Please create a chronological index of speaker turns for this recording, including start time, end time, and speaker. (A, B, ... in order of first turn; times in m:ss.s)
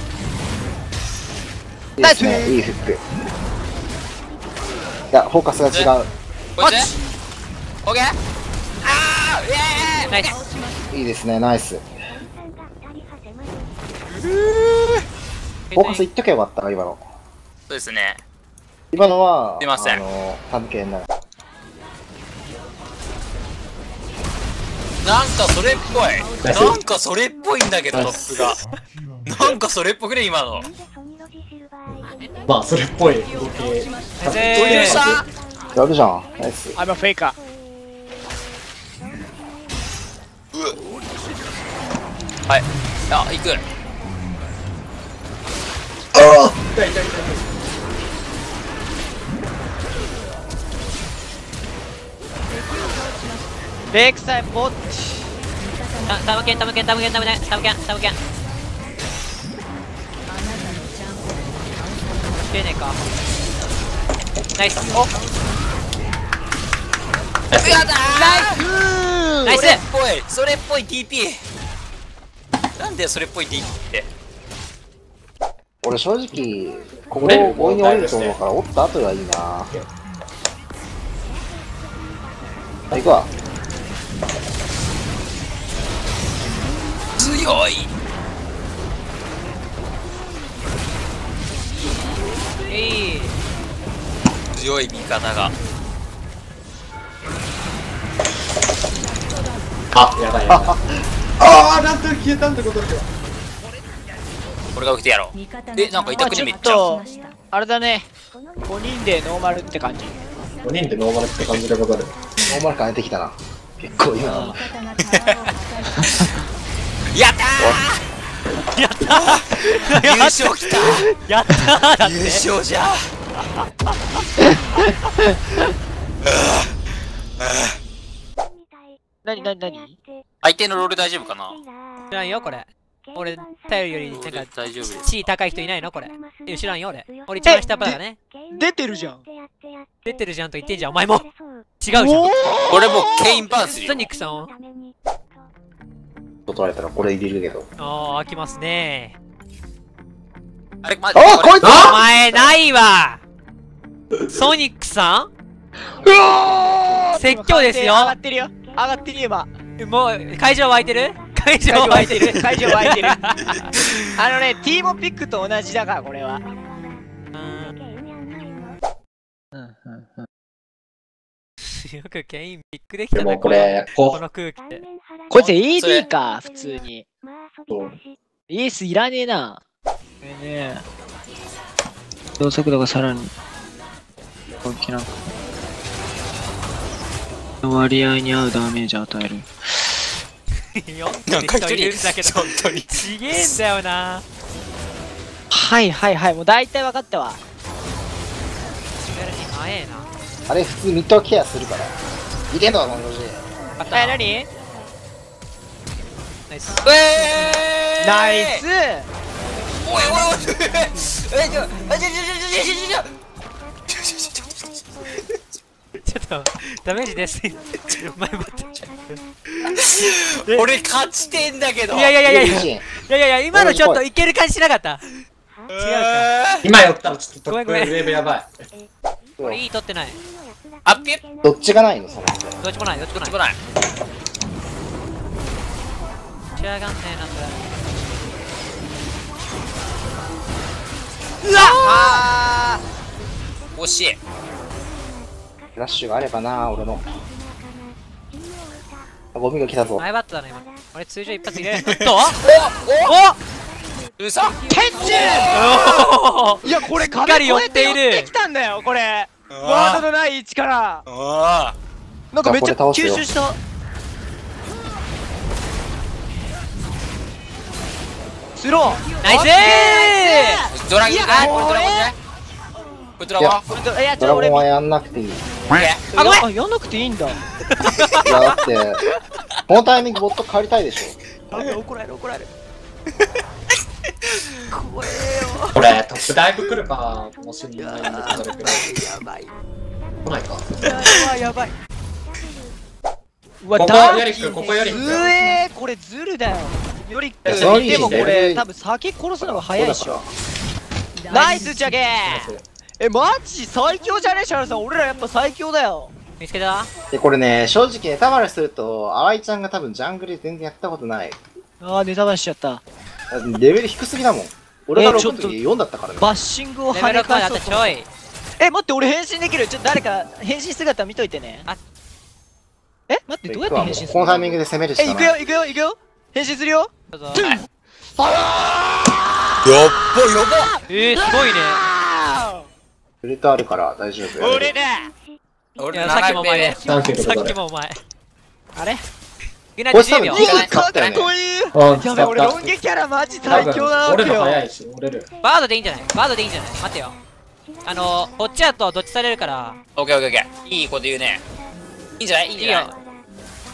0:02.0-0:03.0 A
0:02.0-0:02.6 B
0:05.1-0:06.1 A
0:06.6-0:06.9 C
0:06.6-0:06.9 B
0:07.8-0:08.2 C
0:08.8-0:10.4 C
0:10.1-0:10.4 D
0:10.9-0:11.9 A
0:14.2-0:14.9 C
0:15.7-0:16.0 D
0:15.7-0:17.1 A
0:17.7-0:18.2 C
0:18.9-0:21.1 A
0:19.6-0:20.0 C
0:25.0-0:28.6 C
0:26.4-0:26.8 E
0:27.9-0:28.5 E
0:29.3-0:30.7 C
0:32.5-0:35.2 E
0:34.2-0:35.0 D
0:34.6-0:35.3 C
0:35.7-0:36.8 A
0:36.8-0:37.4 B
0:42.5-0:43.6 C
0:46.1-0:47.5 E
0:53.9-0:55.2 B
0:56.0-0:58.2 D
1:02.3-1:03.0 D
1:04.6-1:05.0 D
1:07.5-1:07.9 E
1:07.6-1:08.6 C
1:08.0-1:09.7 B
1:09.4-1:09.8 D
1:09.5-1:11.4 C
1:12.8-1:14.1 C
1:15.8-1:19.7 A
1:17.1-1:18.4 E
1:22.9-1:23.3 A
1:27.2-1:27.9 C
1:32.7-1:33.4 D
1:34.5-1:35.6 C
1:39.9-1:43.1 E
1:40.5-1:40.8 A
1:44.8-1:47.0 C
1:46.2-1:48.1 B
1:48.6-1:50.2 B
1:50.6-1:52.2 E
1:52.5-1:54.6 A
1:54.2-1:54.6 B
1:55.1-1:55.4 C
1:56.0-1:56.3 B
1:57.1-1:58.0 C
1:58.8-2:02.4 D
1:59.3-2:01.1 C
2:02.0-2:03.1 C
2:06.3-2:06.7 C
2:07.4-2:07.8 C
2:09.2-2:10.0 B
2:10.4-2:11.6 C
2:12.1-2:18.2 D
2:14.1-2:15.1 C
2:17.5-2:18.0 B
2:18.5-2:19.2 B
2:20.0-2:21.3 D
2:21.8-2:22.4 D
2:21.9-2:23.4 B
2:22.6-2:24.1 C
2:23.5-2:24.5 D
2:26.5-2:27.7 A
2:27.8-2:29.2 D
2:30.8-2:31.6 C
2:31.1-2:32.6 A
2:31.6-2:32.0 E
2:31.7-2:33.2 D
2:34.3-2:35.3 D
2:36.0-2:39.5 B
2:36.3-2:37.0 A
2:37.2-2:38.2 D
2:39.8-2:43.7 D
2:41.7-2:43.2 B
2:44.2-2:46.4 B
2:47.3-2:47.8 D
2:49.5-2:50.3 B
2:51.6-2:54.8 D
2:53.2-2:54.2 E
2:55.3-2:57.0 B
2:55.8-2:56.1 C
2:57.7-2:58.0 E
2:58.5-2:59.6 B
3:00.2-3:00.8 B
3:02.4-3:03.3 B
3:04.6-3:05.3 B
3:07.6-3:10.0 B
3:10.6-3:14.2 D
3:11.3-3:13.6 C
3:15.5-3:17.4 B
3:19.1-3:20.1 D
3:20.5-3:22.0 A
3:22.5-3:23.4 A
3:23.8-3:24.2 D
3:23.9-3:24.5 B
3:26.5-3:26.9 D
3:26.8-3:28.6 C
3:28.0-3:29.1 B
3:29.8-3:33.1 C
3:33.9-3:35.2 C
3:36.0-3:39.8 D
3:39.8-3:42.1 C
3:40.4-3:40.7 D
3:41.9-3:45.0 D
3:42.2-3:42.8 A
3:43.5-3:44.0 A
3:45.7-3:46.3 D
3:45.7-3:46.6 C
3:46.6-3:48.6 E
3:47.5-3:48.2 D
3:49.4-3:50.2 D
3:50.9-3:51.2 C
3:51.4-3:52.6 A
3:52.6-3:53.4 D
3:53.1-3:53.6 C
3:56.6-3:57.6 D
4:01.4-4:02.8 B
4:01.6-4:02.2 C
4:03.8-4:04.2 C
4:05.8-4:07.1 A
4:09.3-4:10.0 A
4:10.0-4:12.4 D
4:11.9-4:13.1 C
4:13.1-4:13.4 D
4:14.2-4:16.1 C
4:14.7-4:15.7 B
4:15.5-4:18.3 D
4:16.6-4:21.0 B
4:19.5-4:20.0 C
4:21.1-4:21.8 C
4:22.3-4:23.6 B
4:22.4-4:23.3 A
4:28.6-4:32.1 B
4:29.2-4:30.6 D
4:30.7-4:32.2 C
4:31.3-4:31.6 D
4:33.2-4:33.8 C
4:33.7-4:34.7 B
4:34.2-4:35.5 A
4:35.7-4:36.0 C
4:36.1-4:37.4 B
4:36.1-4:36.4 D
4:37.8-4:38.3 D
4:38.1-4:39.0 A
4:39.7-4:41.2 A
4:41.5-4:42.5 B
4:44.3-4:46.8 B
4:45.7-4:49.2 E
4:47.8-4:49.5 B
4:50.2-4:50.7 E
4:50.8-4:51.8 B
4:53.6-5:00.2 B
4:53.8-4:55.4 E
4:57.4-4:58.3 E
4:57.5-4:58.6 A
4:59.4-5:00.3 A
5:01.3-5:06.1 B
5:02.1-5:02.6 E
5:06.4-5:06.9 D
5:07.1-5:11.4 A
5:11.8-5:12.8 B
5:13.3-5:16.3 A
5:15.0-5:15.6 B
5:16.2-5:18.0 B
5:16.9-5:18.1 D
5:18.6-5:21.7 B
5:23.1-5:27.6 B
5:23.4-5:25.4 A
5:27.1-5:27.6 D
5:28.2-5:32.7 B
5:29.6-5:30.7 C
5:30.9-5:31.8 D
5:33.2-5:34.7 A
5:34.4-5:35.1 B
5:35.8-5:36.8 C
5:35.9-5:38.0 D
5:36.8-5:37.6 E
5:38.8-5:39.0 B
5:39.8-5:40.6 D
5:39.9-5:41.3 A
5:40.3-5:44.6 B
5:41.7-5:42.7 E
5:43.4-5:45.3 E
5:45.4-5:47.2 D
5:47.8-5:49.8 D
5:50.0-5:51.4 C
5:52.2-5:53.0 C
5:52.6-5:52.9 D